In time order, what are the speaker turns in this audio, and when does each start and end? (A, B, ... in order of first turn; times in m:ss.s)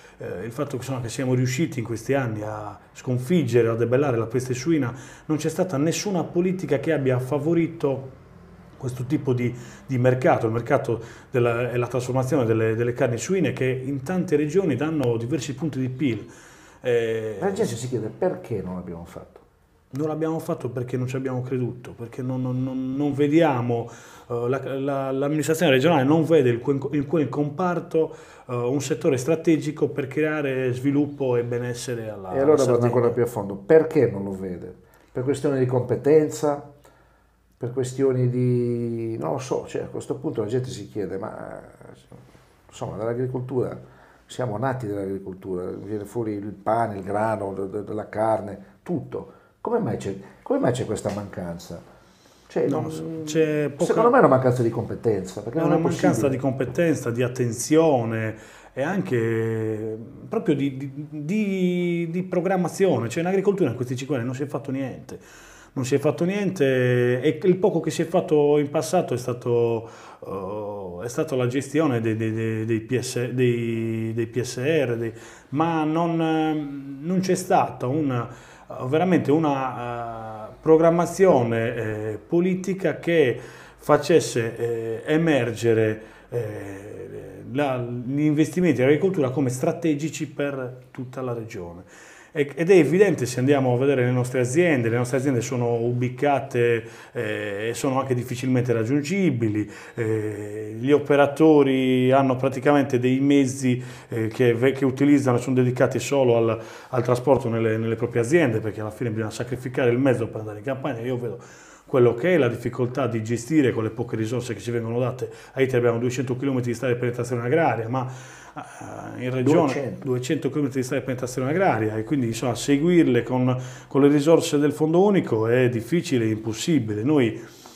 0:00.2-0:08.1 A
0:08.8-0:16.3 A
0:16.8-0:17.7 A
0:17.4-0:19.4 B
0:19.9-0:33.2 A
0:32.3-0:36.7 B
0:37.6-0:42.2 B
0:42.7-0:51.8 B
0:52.5-0:56.4 B
0:52.7-0:54.1 A
0:55.6-1:05.2 A
1:05.7-2:07.4 A
1:59.4-2:00.0 B